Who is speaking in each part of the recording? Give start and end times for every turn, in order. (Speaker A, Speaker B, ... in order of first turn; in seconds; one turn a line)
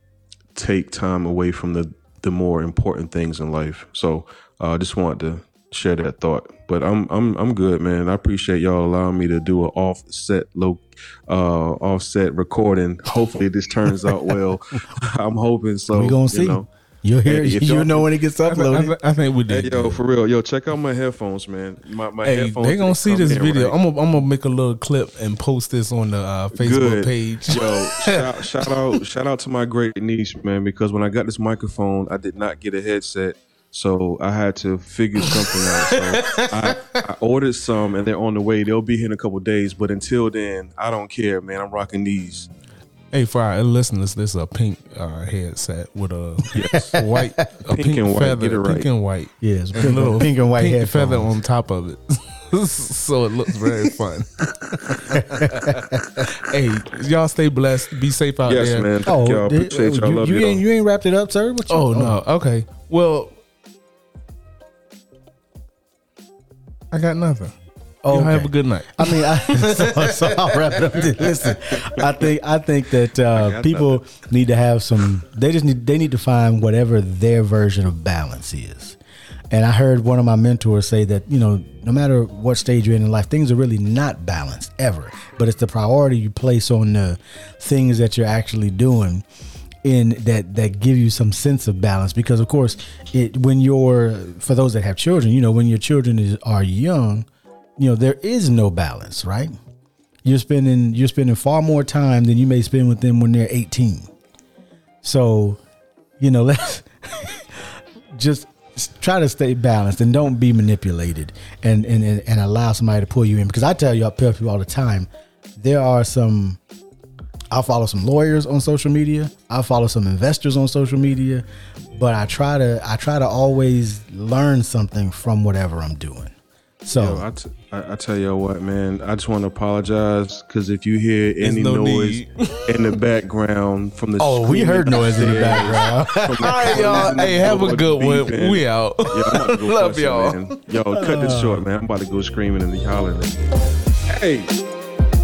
Speaker A: 0.6-16.7
Speaker B: 15.9-18.9
Speaker A: 17.2-18.1
Speaker C: 18.5-20.0
Speaker A: 19.5-23.8
Speaker C: 22.2-28.7
Speaker A: 26.6-42.5
Speaker C: 35.3-37.0
Speaker C: 43.1-58.9
Speaker A: 46.5-47.0
Speaker B: 46.7-47.5
Speaker A: 47.6-48.9
Speaker B: 49.4-51.3
Speaker B: 54.9-56.2
Speaker A: 58.5-60.6
Speaker B: 59.0-62.2
Speaker C: 61.7-63.4
Speaker C: 66.9-67.5
Speaker B: 68.0-79.0
Speaker C: 68.1-71.5
Speaker A: 73.3-74.1
Speaker B: 79.5-89.2
Speaker B: 89.8-99.5
Speaker B: 100.2-104.1
Speaker B: 105.0-105.6
Speaker B: 106.2-116.6
Speaker B: 117.5-121.5
Speaker B: 122.0-127.2
Speaker A: 127.0-143.5
Speaker C: 131.4-133.0
Speaker B: 134.2-137.3
Speaker C: 136.4-140.6
Speaker B: 140.9-141.6
Speaker A: 144.1-144.5